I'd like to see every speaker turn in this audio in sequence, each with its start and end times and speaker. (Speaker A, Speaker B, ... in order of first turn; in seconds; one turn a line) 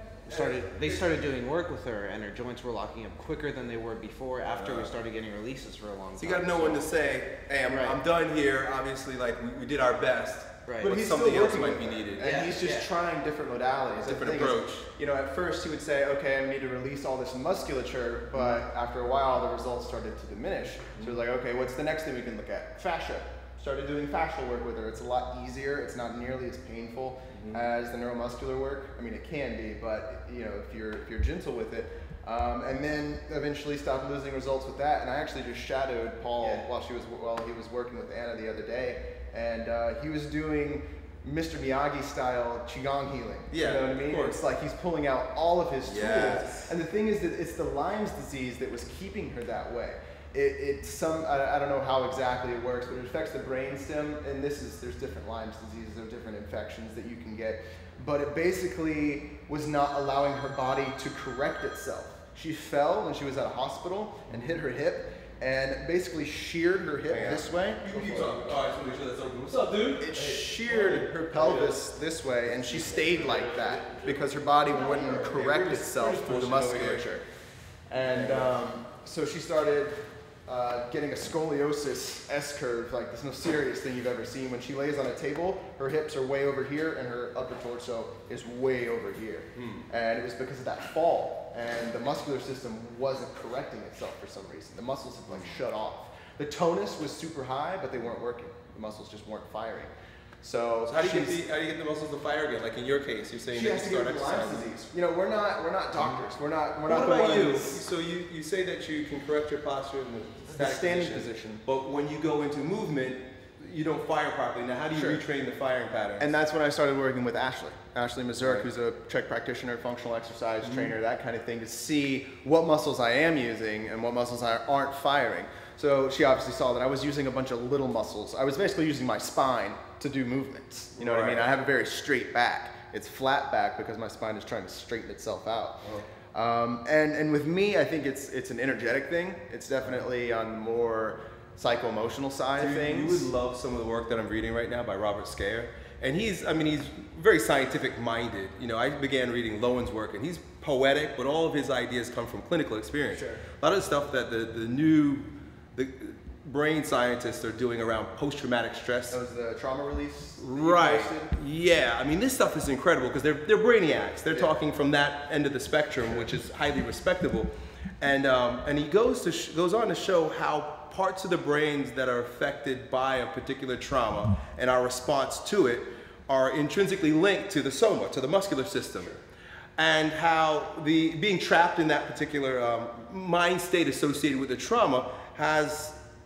Speaker A: 0.2-6.8
Speaker B: 0.3-1.2
Speaker B: 4.5-4.9
Speaker B: 6.2-12.3
Speaker A: 7.6-8.0
Speaker A: 10.7-10.9
Speaker C: 10.8-68.4
Speaker A: 12.2-12.9
Speaker B: 14.0-14.9
Speaker B: 27.3-27.6
Speaker B: 36.4-36.6
Speaker B: 43.5-44.4
Speaker B: 45.8-46.7
Speaker B: 67.1-71.8
Speaker C: 70.0-77.2
Speaker B: 72.6-77.0
Speaker C: 77.9-101.4
Speaker B: 78.0-78.6
Speaker B: 89.5-89.8
Speaker B: 95.3-95.5
Speaker B: 100.8-104.7
Speaker C: 103.5-107.8
Speaker B: 106.8-116.3
Speaker C: 110.5-111.6
Speaker C: 114.9-115.2
Speaker C: 116.2-135.8
Speaker B: 118.4-118.7
Speaker B: 120.6-120.9
Speaker B: 131.0-131.5
Speaker C: 136.3-143.3
Speaker B: 142.6-159.2
Speaker C: 153.1-153.4
Speaker C: 159.1-161.3
Speaker B: 160.4-179.1
Speaker C: 164.3-164.5
Speaker B: 179.8-186.0